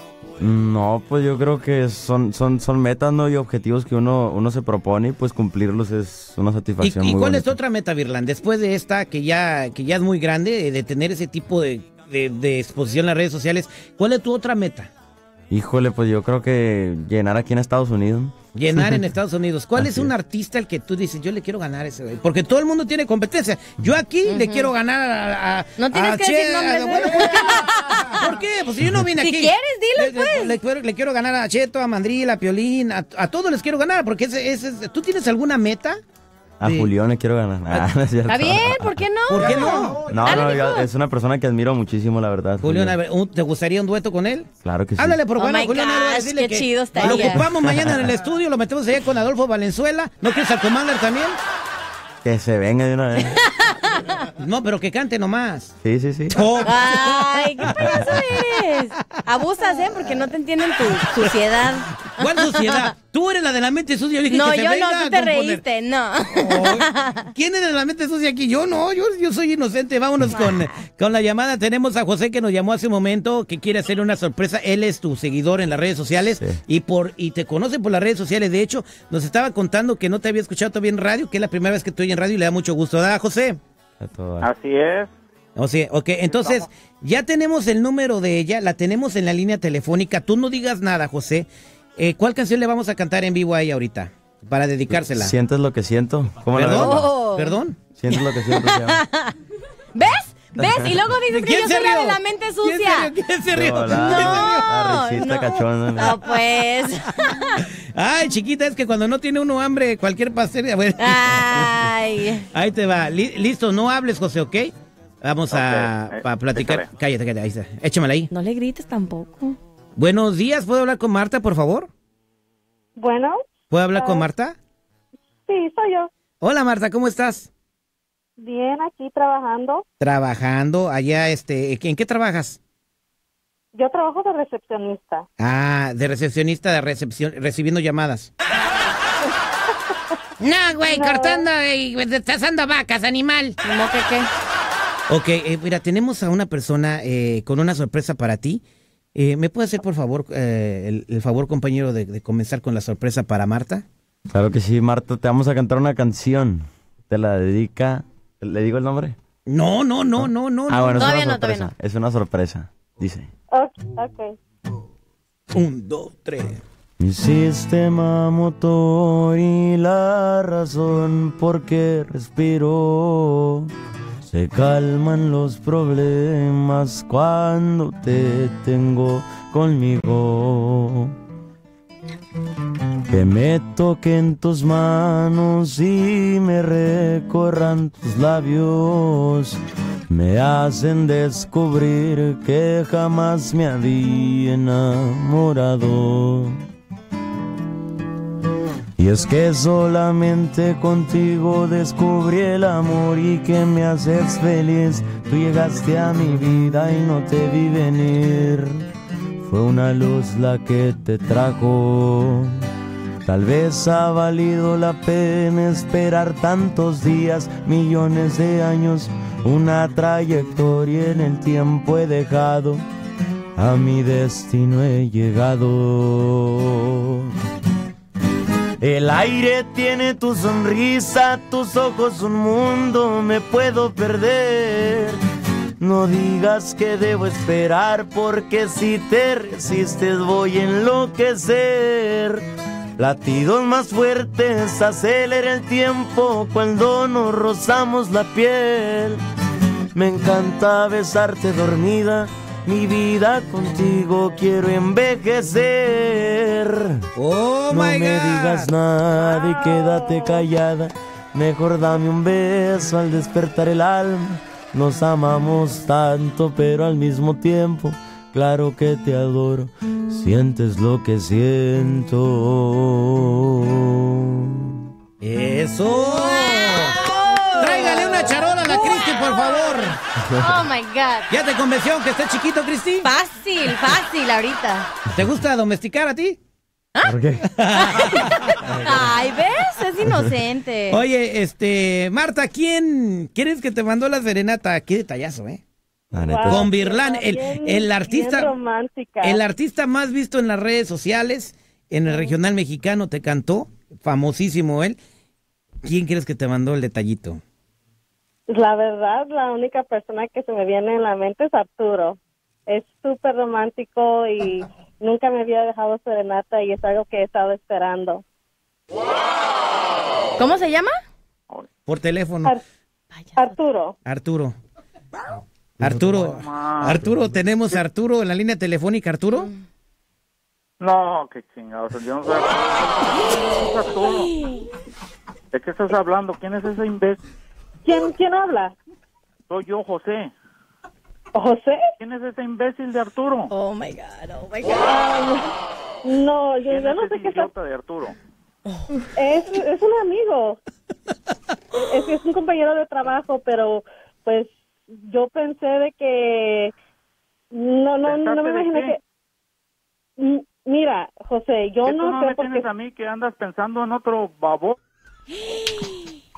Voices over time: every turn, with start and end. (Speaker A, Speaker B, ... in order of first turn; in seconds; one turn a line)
Speaker A: 0.4-7.6
Speaker B: 6.8-14.9
Speaker A: 15.5-19.0
Speaker B: 18.6-36.0
Speaker A: 19.8-20.1
Speaker C: 24.2-24.7
Speaker C: 25.8-28.3
Speaker C: 29.2-30.6
Speaker A: 36.6-39.0
Speaker B: 36.6-36.9
Speaker C: 38.3-40.9
Speaker B: 39.3-40.1
Speaker A: 40.0-43.0
Speaker B: 42.6-51.4
Speaker A: 44.6-45.2
Speaker C: 45.4-47.5
Speaker A: 47.0-48.0
Speaker A: 52.2-53.4
Speaker C: 53.3-54.2
Speaker B: 54.4-55.7
Speaker A: 55.8-56.4
Speaker B: 56.3-58.2
Speaker C: 56.6-62.9
Speaker A: 57.8-58.0
Speaker B: 62.0-65.6
Speaker C: 64.3-67.3
Speaker B: 66.4-83.6
Speaker C: 70.3-70.7
Speaker A: 84.0-84.5
Speaker D: 84.4-85.1
Speaker B: 85.6-95.3
Speaker D: 86.3-86.6
Speaker A: 95.0-97.1
Speaker B: 96.5-97.8
Speaker C: 96.8-97.6
Speaker A: 98.0-99.0
Speaker C: 98.1-99.4
Speaker C: 100.0-103.1
Speaker B: 101.3-104.7
Speaker A: 103.5-106.2
Speaker C: 103.9-107.7
Speaker B: 107.6-111.8
Speaker C: 111.0-112.5
Speaker B: 112.5-114.7
Speaker B: 115.2-118.3
Speaker D: 115.5-116.8
Speaker C: 118.3-119.6
Speaker B: 120.0-121.9
Speaker E: 123.0-123.4
Speaker B: 123.7-124.6
Speaker E: 124.0-124.3
Speaker E: 125.5-126.1
Speaker B: 126.4-127.5
Speaker E: 128.4-129.8
Speaker B: 130.0-132.6
Speaker E: 133.7-135.3
Speaker B: 135.4-138.3
Speaker B: 140.4-143.6
Speaker E: 140.9-141.5
Speaker C: 143.6-144.3
Speaker B: 145.1-148.6
Speaker B: 149.1-153.8
Speaker A: 154.3-159.2
Speaker B: 159.5-161.1
Speaker A: 160.2-163.3
Speaker C: 160.9-161.7
Speaker E: 163.5-164.3
Speaker B: 165.5-166.6
Speaker A: 167.0-173.7
Speaker A: 174.3-181.2
Speaker A: 183.1-189.6
Speaker A: 190.1-196.6
Speaker A: 199.0-208.8
Speaker A: 209.4-212.6
Speaker A: 213.2-222.8
Speaker A: 223.6-227.3
Speaker A: 228.8-235.2
Speaker A: 235.8-242.5
Speaker A: 243.0-249.2
Speaker A: 249.9-257.0
Speaker B: 257.2-258.7
Speaker A: 257.7-274.8
Speaker E: 259.4-260.4
Speaker B: 275.2-277.0
Speaker C: 276.0-281.3
Speaker B: 277.6-280.0
Speaker A: 280.3-280.6
Speaker B: 281.3-283.1
Speaker C: 283.0-284.9
Speaker B: 285.1-286.4
Speaker A: 287.0-287.4
Speaker B: 287.4-288.9
Speaker C: 287.7-291.0
Speaker B: 290.9-295.6
Speaker A: 296.1-296.7
Speaker E: 296.2-299.4
Speaker B: 296.5-298.6
Speaker B: 299.2-305.0
Speaker B: 305.8-307.4
Speaker E: 308.5-318.2
Speaker C: 320.4-320.9
Speaker B: 321.9-322.6
Speaker C: 323.2-323.6
Speaker E: 323.4-324.0
Speaker B: 324.1-324.6
Speaker B: 325.8-329.5
Speaker D: 326.2-327.0
Speaker D: 330.8-334.3
Speaker C: 334.1-334.7
Speaker D: 335.5-337.2
Speaker E: 337.9-338.8
Speaker D: 339.5-340.3
Speaker E: 341.4-341.8
Speaker D: 342.0-343.5
Speaker C: 343.5-344.9
Speaker E: 344.8-345.5
Speaker E: 346.0-347.5
Speaker D: 346.7-348.1
Speaker E: 349.1-350.6
Speaker E: 351.7-354.6
Speaker E: 355.1-356.7
Speaker E: 357.5-359.0
Speaker D: 358.0-359.0
Speaker E: 360.2-362.7
Speaker D: 361.8-364.8